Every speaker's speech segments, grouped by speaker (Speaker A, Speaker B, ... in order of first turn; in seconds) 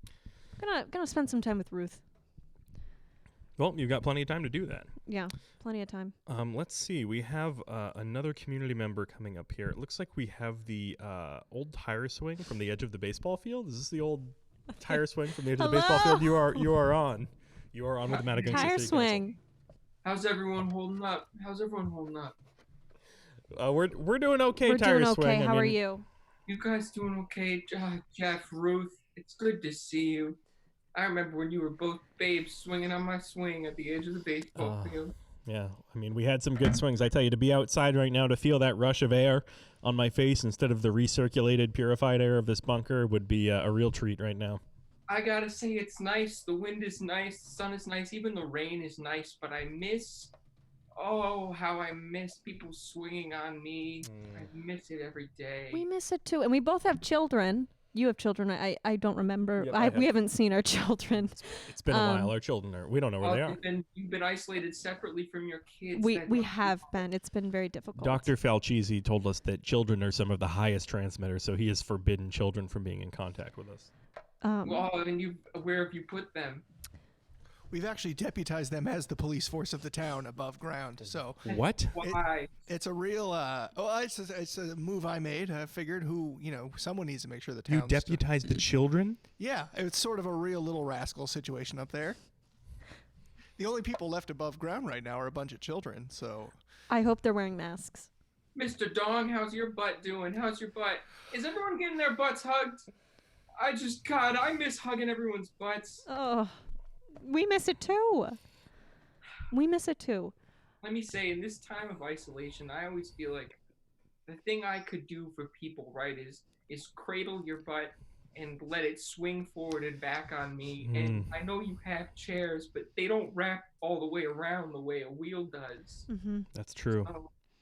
Speaker A: 0.6-2.0, 5.1-6.2, 15.6-16.7, 18.4-19.4, 24.6-26.1, 55.7-62.4, 65.9-68.3, 74.4-74.9, 96.9-98.1, 106.1-106.6, 107.2-108.4, 109.5-110.3, 126.1-126.5
Speaker B: 3.6-4.9, 6.3-19.3, 23.5-25.8, 34.6-44.6, 54.0-54.5, 59.6-60.1, 61.7-63.6, 68.0-73.9, 81.5-82.0, 87.7-89.2, 120.8-121.3, 126.5-127.1
Speaker C: 18.1-18.7, 20.0-22.4, 26.5-30.4, 30.9-35.1, 45.1-50.3, 51.0-55.9, 63.2-67.0, 74.6-76.7, 81.5-82.5, 98.6-102.8, 103.6-106.1, 110.8-113.6, 114.3-126.1, 127.0-127.3
Speaker D: 77.7-88.4, 89.4-92.2, 93.6-96.6